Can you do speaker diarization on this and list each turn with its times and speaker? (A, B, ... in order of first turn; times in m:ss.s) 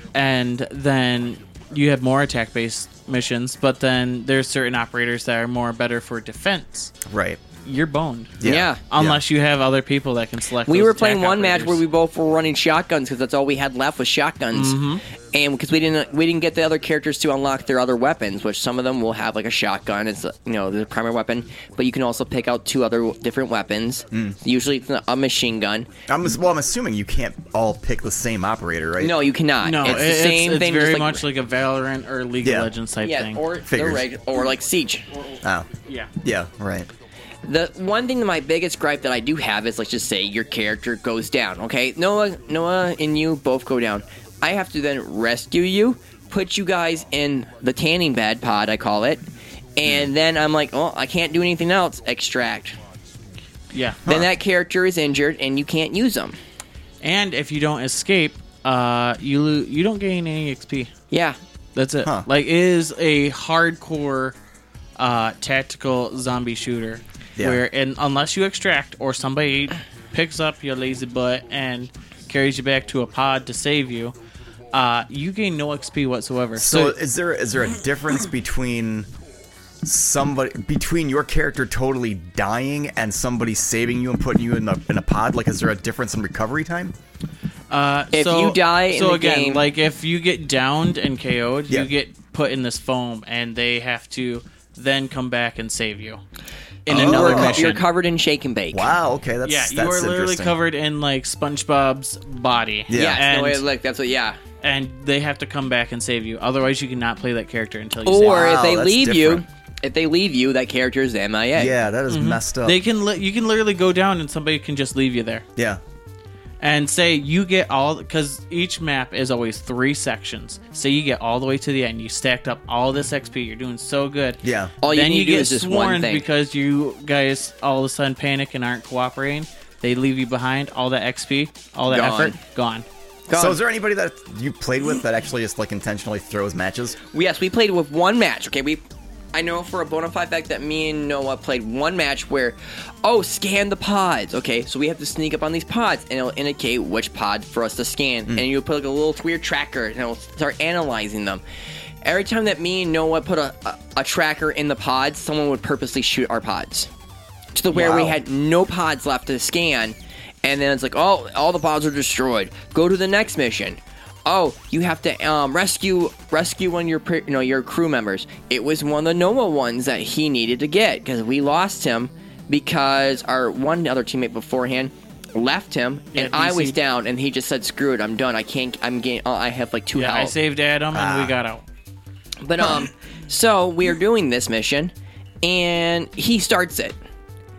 0:00.1-0:06.9 A
0:07.1-0:07.4 B
0:07.6-0:11.8 A
0:08.4-0:09.2 B
0:08.4-0:08.8 C
0:10.7-0:14.8 C
0:14.5-0:15.0 A
0:15.3-0:25.9 C
0:24.1-0:24.4 B
0:26.1-0:29.3 B
0:29.0-0:31.3 C
0:29.6-0:33.5 A
0:32.4-0:32.7 B
0:33.0-0:35.1 C
0:33.7-0:34.1 B
0:35.1-0:36.1 A
0:35.4-0:35.7 B
0:36.2-0:36.9 B
0:37.4-0:49.2 C
0:49.8-0:52.8 C
0:53.7-0:54.0 A
0:54.1-0:56.4 C
0:57.0-1:00.9 A
1:01.1-1:01.4 C
1:01.8-1:04.4 A
1:05.0-1:14.2 A
1:07.4-1:07.6 B
1:14.7-1:17.0 A
1:16.6-1:19.1 B
1:19.8-1:26.9 B
1:27.7-1:36.2 A
1:28.1-1:29.6 C
1:36.8-1:37.8 A
1:36.9-1:38.9 C
1:36.9-1:37.7 B
1:38.7-1:40.6 B
1:39.4-1:43.6 A
1:42.9-1:43.2 B
1:42.9-1:44.4 C
1:44.6-1:48.6 A
1:48.0-1:51.8 C
1:48.2-1:49.4 B
1:51.6-1:52.8 B
1:52.1-1:55.4 A
1:55.6-1:55.8 B
1:56.6-2:12.9 A
2:04.4-2:04.7 B
2:04.8-2:06.2 C
2:11.9-2:12.4 C
2:13.3-2:13.6 C
2:13.3-2:17.0 B
2:17.1-2:31.4 C
2:32.0-2:36.9 C
2:37.6-3:00.3 C
2:37.7-2:38.2 B
2:56.1-2:56.8 A
3:00.0-3:01.6 A
3:00.9-3:01.4 B
3:02.4-3:04.9 C
3:05.4-3:07.0 C